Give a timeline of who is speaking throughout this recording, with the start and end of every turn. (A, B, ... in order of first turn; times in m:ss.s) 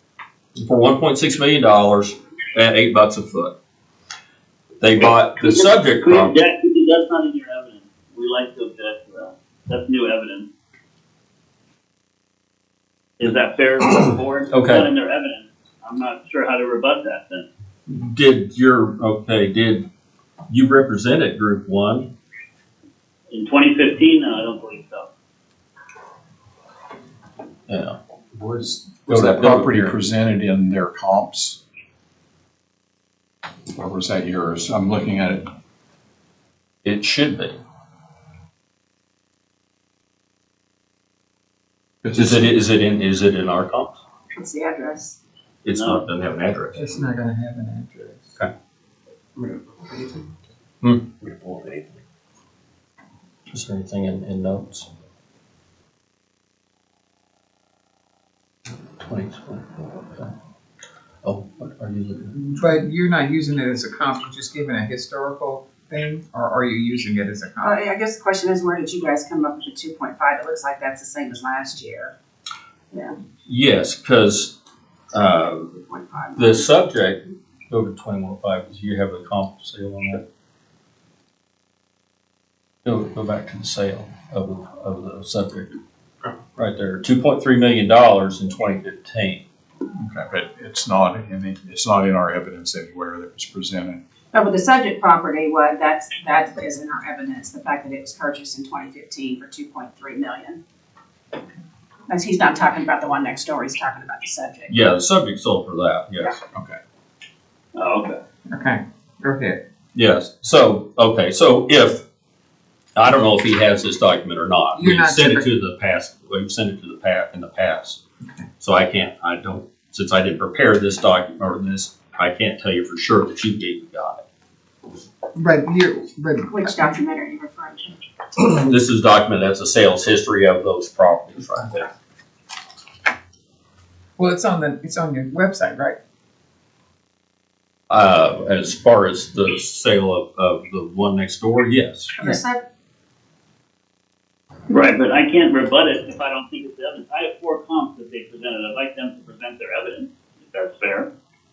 0:00.6-0:03.5 A
0:04.8-0:06.4 A
0:05.4-0:10.5 B
0:13.2-0:17.5 B
0:14.5-0:14.9 A
0:17.9-0:19.8 A
0:20.5-0:22.1 A
0:23.3-0:25.1 B
0:27.7-0:28.0 A
0:28.4-0:31.6 C
0:29.1-0:30.0 A
0:33.7-0:35.5 C
0:36.8-0:37.6 A
0:42.0-0:42.5 C
0:42.2-0:44.0 A
0:44.4-0:45.2 D
0:45.6-0:46.8 A
0:45.7-0:46.0 B
0:46.8-0:48.4 E
0:49.4-0:50.2 E
0:50.8-0:52.0 A
0:53.5-0:54.9 A
0:59.0-1:00.3 A
1:01.2-1:02.4 A
1:02.3-1:07.8 E
1:07.6-1:12.1 D
1:13.5-1:14.6 A
1:15.1-1:15.8 A
1:15.9-1:16.3 D
1:16.4-1:20.2 A
1:22.8-1:25.7 A
1:26.6-1:29.4 A
1:30.0-1:34.0 C
1:34.3-1:40.6 D
1:42.1-1:44.7 D
1:44.7-1:46.4 A
1:46.5-1:46.8 C
1:47.8-1:48.2 B
1:48.5-1:49.6 E
1:50.0-1:52.0 A
1:53.0-1:58.0 A
1:54.8-1:55.5 E
1:58.6-2:04.2 A
2:05.4-2:07.0 E
2:06.5-2:08.0 D
2:08.4-2:11.9 A
2:14.2-2:16.0 E
2:17.9-2:22.1 A
2:22.2-2:22.6 D
2:24.7-2:31.1 B